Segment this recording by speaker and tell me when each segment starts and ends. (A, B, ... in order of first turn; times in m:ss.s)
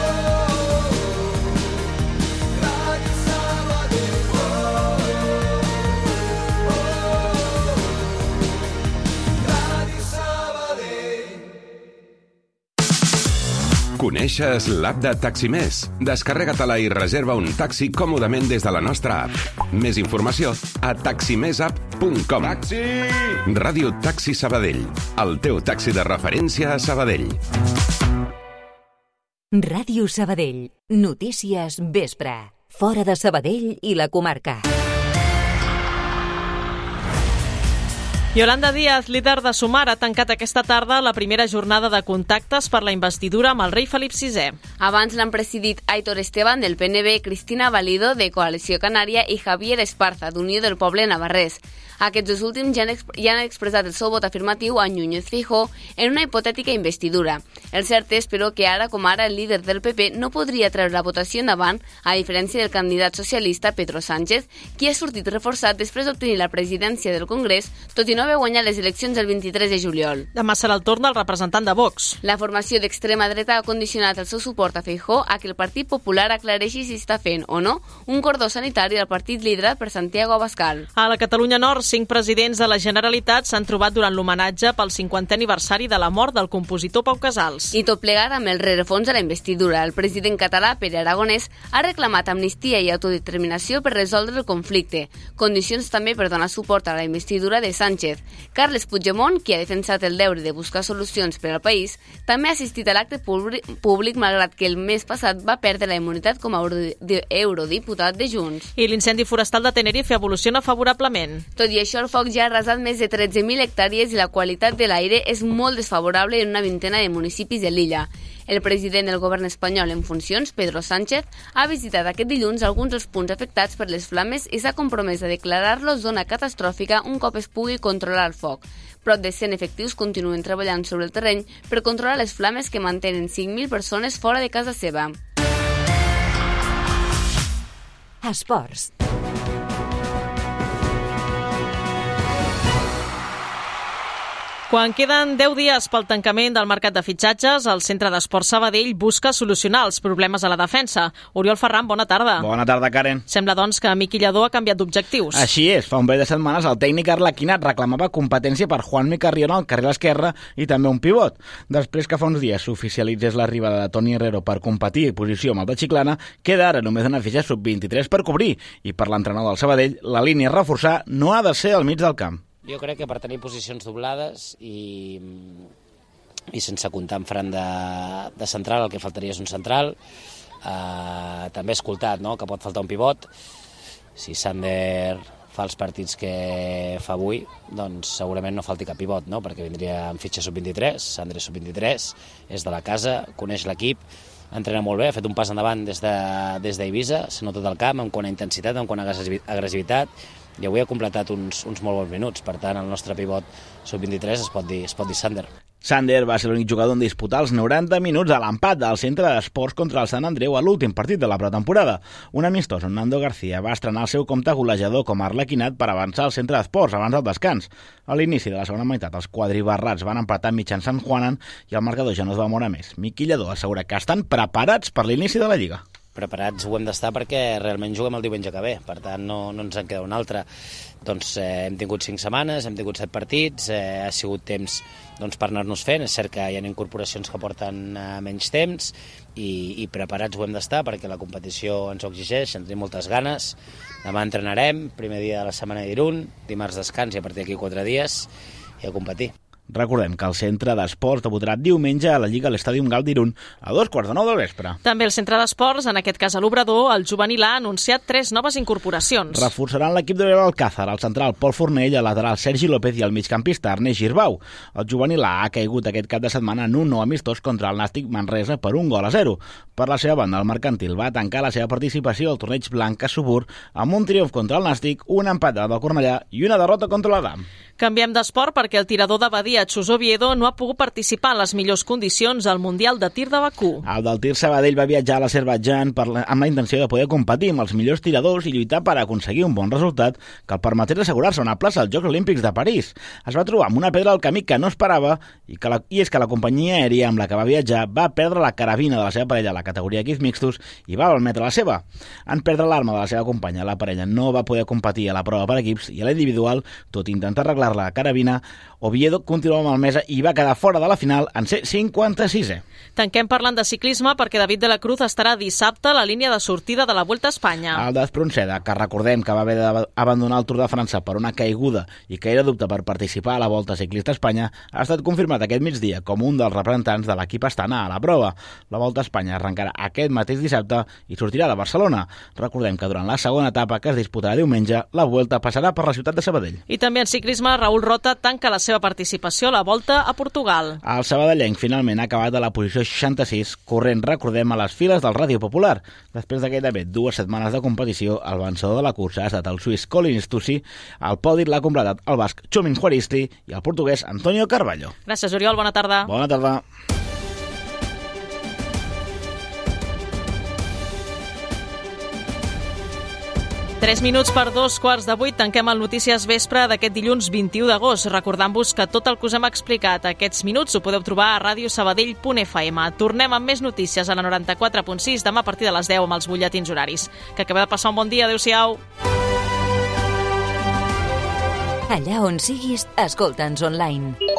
0:14.0-0:22.6 A
0:23.4-0:27.4 A
0:29.5-0:34.7 B
0:38.3-0:44.6 C
0:44.8-1:10.3 D
1:10.4-1:12.2 C
1:12.2-1:20.9 D
1:21.0-1:27.8 C
1:27.7-1:48.7 D
1:48.8-1:51.4 C
1:51.6-2:15.2 D
2:18.2-2:18.9 B
2:24.7-2:32.5 C
2:32.4-2:33.2 E
2:33.3-2:35.5 C
2:35.3-2:52.4 E
2:52.6-2:55.7 F
2:56.5-3:00.0 F
3:00.6-3:03.3 F
3:04.2-3:14.0 F
3:14.5-3:25.5 F
3:25.8-3:45.8 E
3:46.2-3:50.4 F
3:51.0-4:08.3 F
4:08.8-4:09.3 F
4:09.7-4:14.8 E
4:14.8-4:19.5 C
4:19.3-4:37.4 E
4:37.8-4:43.8 C
4:43.8-5:12.6 E
5:13.0-5:17.8 C
5:17.7-5:36.6 E
5:36.7-5:40.8 C
5:40.8-5:54.9 E
5:55.1-5:56.1 C
5:56.0-5:56.6 E
6:03.8-6:18.8 C
6:21.9-6:24.2 B